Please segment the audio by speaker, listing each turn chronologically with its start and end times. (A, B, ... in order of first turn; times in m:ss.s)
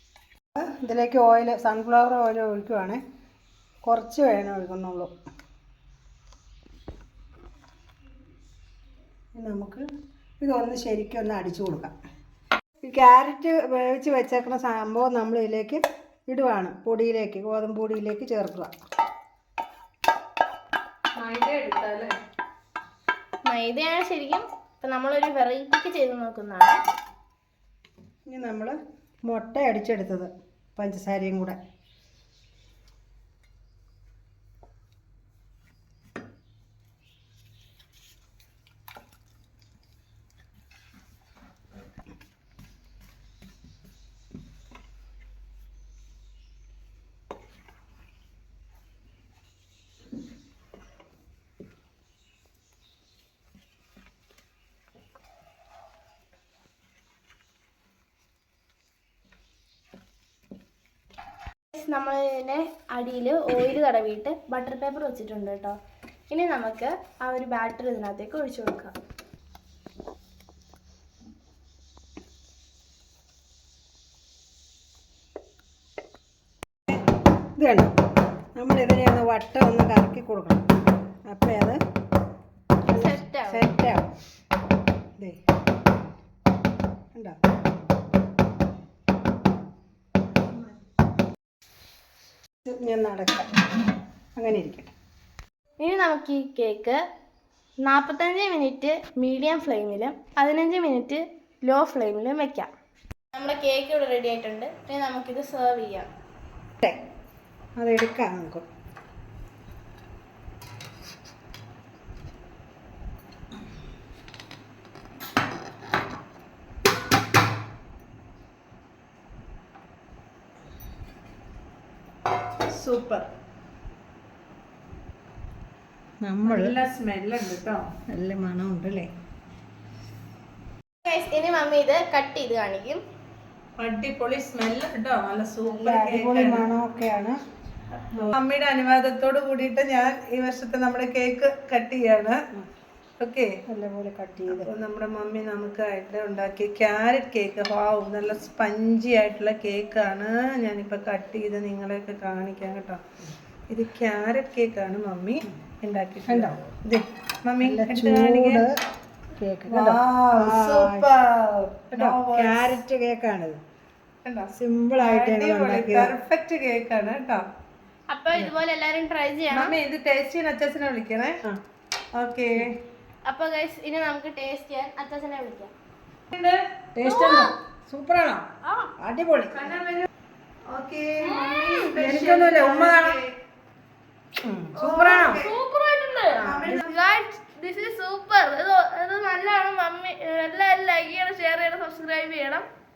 0:00.5-0:03.0 A
0:03.8-0:05.1 A
0:09.4-0:09.8 A
0:10.4-0:11.9 A
0:12.8-0:18.7 A
0:21.1-0:22.2 B
0:23.4-0:26.8 C
0:28.3-0:28.8 A
0:29.3-0:31.6 A
1:01.7-1:05.8 C
1:06.3-1:08.9 C
1:17.6-1:17.9 A
1:18.5-1:20.6 A
1:21.3-1:21.8 A
1:22.9-1:23.7 C
1:22.9-1:24.1 A
1:27.1-1:27.4 A
1:32.6-1:33.5 A
1:34.4-1:34.9 A
1:35.8-1:37.0 C
1:37.8-1:42.7 C
1:43.3-1:46.1 C
1:47.8-1:48.7 A
2:02.7-2:03.3 B
2:06.2-2:06.8 A
2:06.4-2:07.9 B
2:08.0-2:09.1 A
2:11.0-2:13.0 C
2:13.8-2:16.7 B
2:15.6-2:17.4 A
2:18.1-2:22.4 B
2:23.2-2:23.6 B
2:23.7-2:24.7 A
2:24.5-2:33.0 B
2:33.7-2:38.6 B
2:36.2-2:36.6 A
2:37.6-2:38.7 A
2:39.4-2:41.1 A
2:39.7-2:42.8 B
2:41.9-2:43.6 A
2:44.2-2:47.4 B
2:44.6-2:46.1 A
2:48.1-2:49.7 C
2:49.5-2:51.4 B
2:52.1-2:52.8 B
2:53.2-2:55.7 C
2:56.3-2:56.8 B
2:56.9-2:59.7 A
2:57.0-2:57.5 C
2:59.6-3:00.1 B
3:00.7-3:03.3 B
3:01.2-3:01.9 C
3:01.9-3:03.2 A
3:04.4-3:05.5 A
3:04.8-3:12.6 C
3:04.8-3:05.5 B
3:06.4-3:06.9 B
3:06.4-3:06.8 A